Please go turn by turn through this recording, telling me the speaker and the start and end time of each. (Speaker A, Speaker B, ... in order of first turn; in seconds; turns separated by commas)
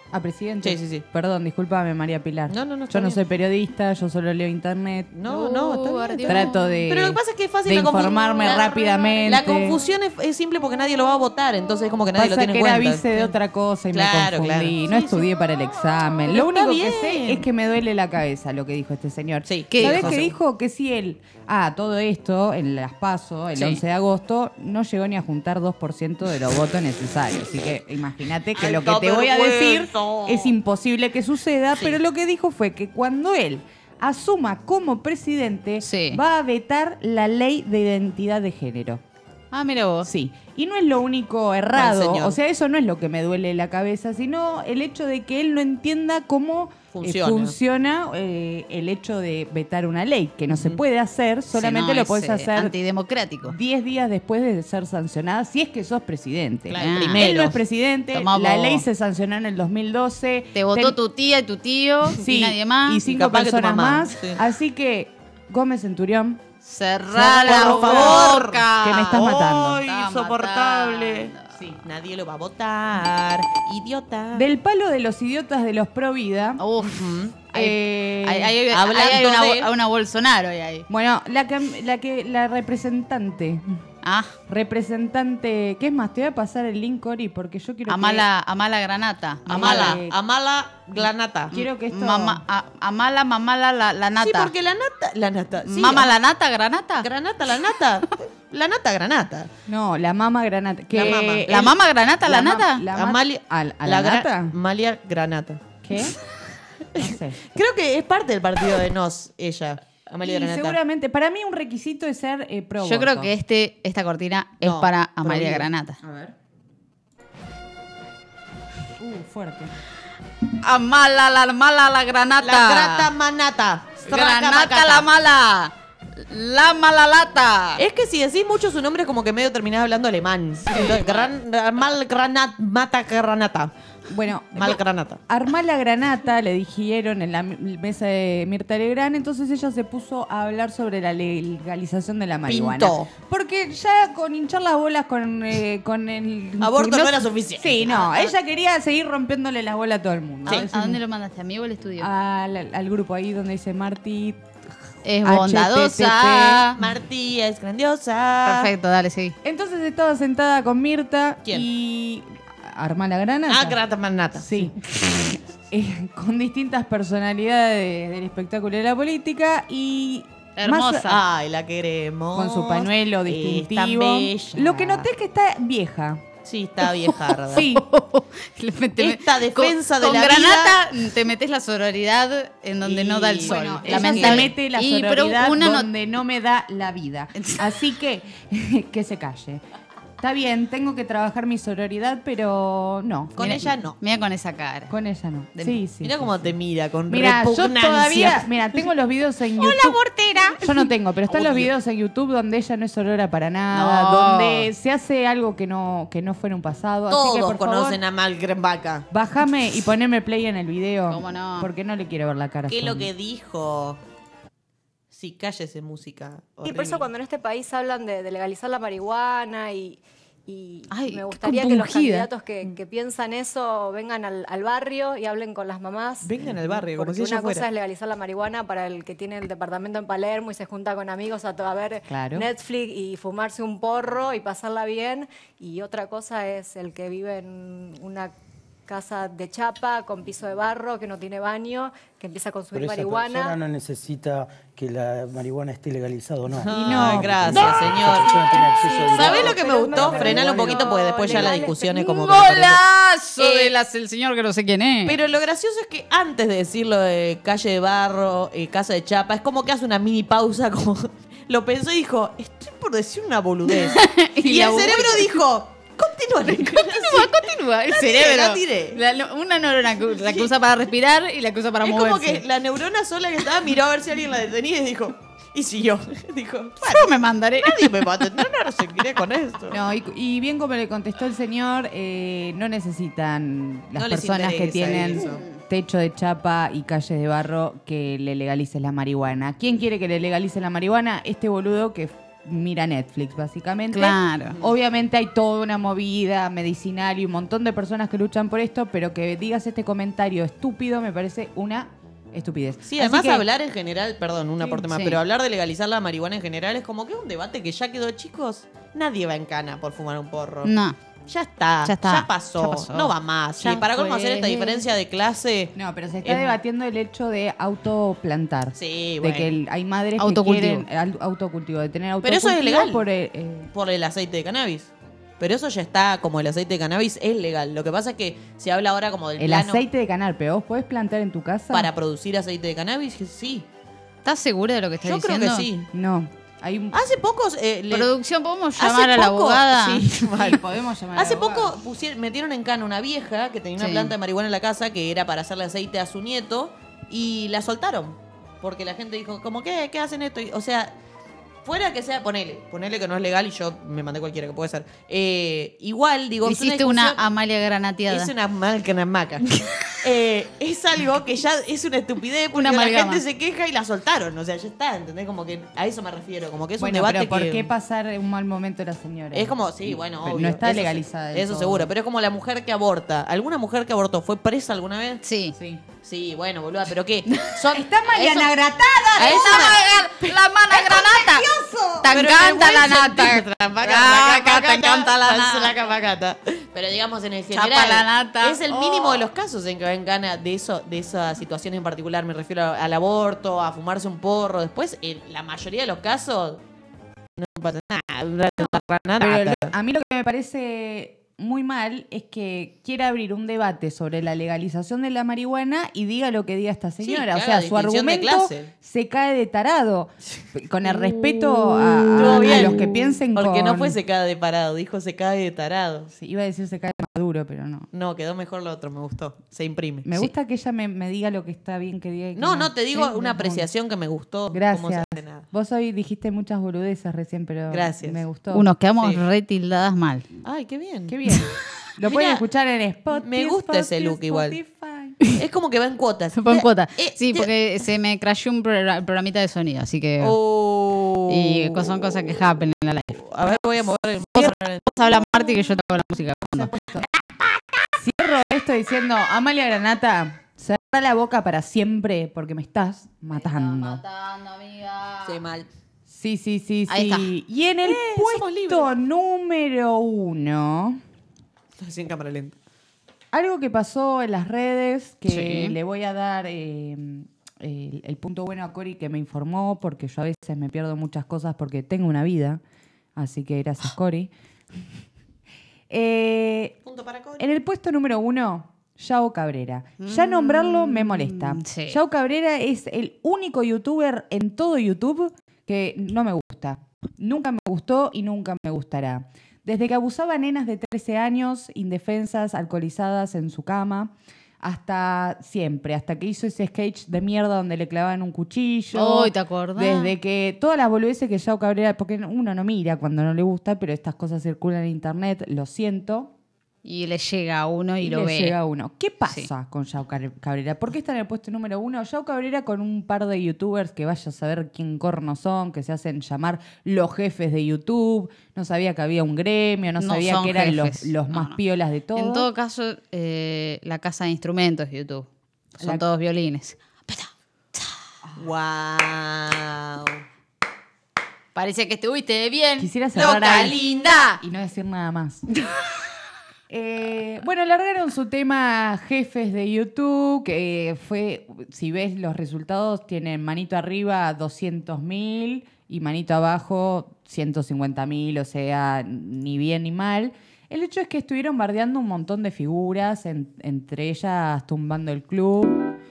Speaker A: 0.1-5.1, Speaker B: 0.6-1.0, Speaker B: 2.5-3.2, Speaker B: 5.1-13.3, Speaker C: 5.3-6.8, Speaker A: 6.3-9.8, Speaker A: 12.1-39.0, Speaker B: 13.9-15.3, Speaker B: 16.3-17.4, Speaker B: 19.4-20.3, Speaker C: 19.7-20.2, Speaker C: 23.6-23.8, Speaker B: 28.5-30.5, Speaker C: 35.8-36.2, Speaker C: 39.5-40.1, Speaker A: 40.0-52.7, Speaker B: 41.7-42.4, Speaker B: 46.9-47.5, Speaker B: 50.5-50.8, Speaker C: 51.5-53.5, Speaker A: 53.4-61.0, Speaker B: 56.7-57.6, Speaker C: 56.8-57.2, Speaker C: 58.1-58.8, Speaker C: 60.5-63.0, Speaker A: 62.2-66.4, Speaker B: 63.0-64.4, Speaker C: 66.6-71.5, Speaker A: 67.1-69.8, Speaker B: 67.4-71.3, Speaker A: 71.5-71.8, Speaker B: 71.8-74.5, Speaker A: 74.3-76.6, Speaker C: 76.6-80.9, Speaker B: 76.8-77.3, Speaker A: 77.5-78.6, Speaker B: 78.7-79.7, Speaker A: 80.9-83.8, Speaker C: 84.0-84.3, Speaker A: 84.5-88.3, Speaker C: 87.9-90.0, Speaker A: 89.5-90.2, Speaker B: 89.5-91.5, Speaker A: 91.5-92.4, Speaker C: 91.5-94.5, Speaker B: 94.2-96.1, Speaker C: 95.7-97.1, Speaker B: 97.0-99.5, Speaker A: 99.7-101.7, Speaker B: 100.9-101.7, Speaker C: 101.5-102.8, Speaker A: 102.2-104.5, Speaker B: 102.9-105.6, Speaker A: 105.8-106.2, Speaker A: 107.0-107.4, Speaker B: 107.0-110.8, Speaker A: 110.2-113.3, Speaker C: 112.8-116.0, Speaker B: 114.6-115.7, Speaker A: 116.0-116.3, Speaker A: 119.0-119.8, Speaker C: 120.6-123.1, Speaker B: 122.4-125.0, Speaker C: 124.0-127.8, Speaker B: 127.8-133.7, Speaker C: 130.7-131.3, Speaker A: 134.1-151.0, Speaker B: 134.5-135.2, Speaker B: 142.5-143.1, Speaker B: 146.6-148.3, Speaker C: 150.5-152.1, Speaker A: 152.0-154.4, Speaker C: 155.0-156.8, Speaker A: 155.2-156.7, Speaker B: 156.8-158.7, Speaker C: 158.4-159.3, Speaker A: 159.4-163.8, Speaker B: 163.5-164.7, Speaker A: 164.3-164.8, Speaker A: 165.7-171.1, Speaker C: 170.6-171.2, Speaker B: 171.1-175.1, Speaker A: 172.3-176.2, Speaker B: 176.4-177.6, Speaker C: 177.0-185.9, Speaker A: 177.5-177.8, Speaker B: 179.0-180.8, Speaker B: 182.8-184.5, Speaker A: 183.4-189.6, Speaker C: 187.4-187.7, Speaker A: 190.2-193.7, Speaker B: 193.3-193.9, Speaker C: 193.4-194.9, Speaker A: 194.9-196.5, Speaker B: 196.0-198.5, Speaker A: 197.1-200.0, Speaker C: 199.6-200.8, Speaker A: 200.6-208.0, Speaker B: 201.3-201.7, Speaker C: 203.7-204.7, Speaker B: 207.1-209.1, Speaker A: 209.1-213.1, Speaker C: 211.1-211.7, Speaker B: 212.7-214.0, Speaker B: 215.1-217.1, Speaker D: 216.6-238.3, Speaker C: 220.9-221.7, Speaker A: 221.4-222.3, Speaker B: 226.2-227.7, Speaker A: 232.1-232.5, Speaker D: 238.9-243.6, Speaker E: 242.7-251.7, Speaker B: 246.6-248.3, Speaker A: 246.7-247.6, Speaker D: 247.5-251.8, Speaker B: 249.1-252.8, Speaker C: 251.7-255.2, Speaker B: 253.4-253.7, Speaker B: 255.0-269.0, Speaker C: 263.7-265.4, Speaker C: 266.5-272.4, Speaker B: 270.2-270.5, Speaker B: 271.8-279.8, Speaker C: 276.8-278.4, Speaker A: 279.7-303.4, Speaker B: 283.9-285.4, Speaker C: 293.9-294.6, Speaker B: 302.9-310.7, Speaker C: 304.8-305.2, Speaker C: 310.6-311.0, Speaker B: 311.3-316.6, Speaker C: 311.8-313.1, Speaker A: 313.6-314.8, Speaker A: 315.7-323.7, Speaker B: 318.7-319.5, Speaker C: 320.2-320.9, Speaker B: 322.2-323.0, Speaker B: 323.7-329.8, Speaker A: 329.4-331.9, Speaker B: 331.7-333.7, Speaker C: 334.2-335.7, Speaker B: 335.0-335.9, Speaker A: 335.9-337.0, Speaker B: 336.9-338.1, Speaker C: 337.9-340.3, Speaker B: 338.8-340.6, Speaker A: 340.3-341.8, Speaker B: 341.1-350.9, Speaker C: 343.8-344.1, Speaker B: 351.6-357.2, Speaker C: 356.4-358.3, Speaker B: 358.1-367.7, Speaker C: 362.5-363.2, Speaker A: 366.8-371.9, Speaker B: 369.3-375.2, Speaker C: 375.2-375.5, Speaker A: 375.5-375.8, Speaker B: 376.0-377.9, Speaker C: 377.3-377.5, Speaker A: 377.7-379.8, Speaker C: 378.1-378.5, Speaker C: 379.1-385.9, Speaker B: 379.2-379.8, Speaker A: 380.9-382.0, Speaker B: 382.1-396.6, Speaker C: 387.5-389.2, Speaker B: 397.4-399.7, Speaker A: 399.2-414.0, Speaker B: 407.0-408.7, Speaker B: 412.1-416.1, Speaker C: 412.2-412.8, Speaker A: 416.1-417.9, Speaker B: 417.9-420.1, Speaker A: 420.0-423.7, Speaker B: 422.4-425.4, Speaker A: 424.5-428.6, Speaker B: 427.7-428.2, Speaker C: 428.5-430.2, Speaker B: 430.4-431.1, Speaker A: 431.1-435.2, Speaker B: 432.0-432.4, Speaker B: 433.1-434.6, Speaker B: 435.3-437.5, Speaker C: 436.4-440.4, Speaker B: 440.2-442.3, Speaker C: 441.3-443.6, Speaker B: 443.1-445.5, Speaker C: 444.3-446.7, Speaker A: 446.5-447.1, Speaker A: 448.0-454.0, Speaker C: 453.3-455.4, Speaker B: 455.2-455.7, Speaker A: 456.1-461.0, Speaker C: 456.9-457.3, Speaker B: 457.8-458.9, Speaker B: 461.8-462.5, Speaker A: 463.3-472.6, Speaker C: 465.3-465.7, Speaker A: 473.1-474.3, Speaker A: 475.9-476.8, Speaker B: 476.8-477.5, Speaker A: 477.4-506.3, Speaker C: 480.0-482.0, Speaker C: 498.9-500.1, Speaker C: 506.8-508.6, Speaker A: 508.0-522.5, Speaker C: 520.0-521.6, Speaker C: 522.1-528.0, Speaker B: 528.4-530.2, Speaker C: 531.5-534.4, Speaker A: 532.8-533.8, Speaker B: 533.1-534.4, Speaker A: 534.4-535.5, Speaker A: 536.7-555.8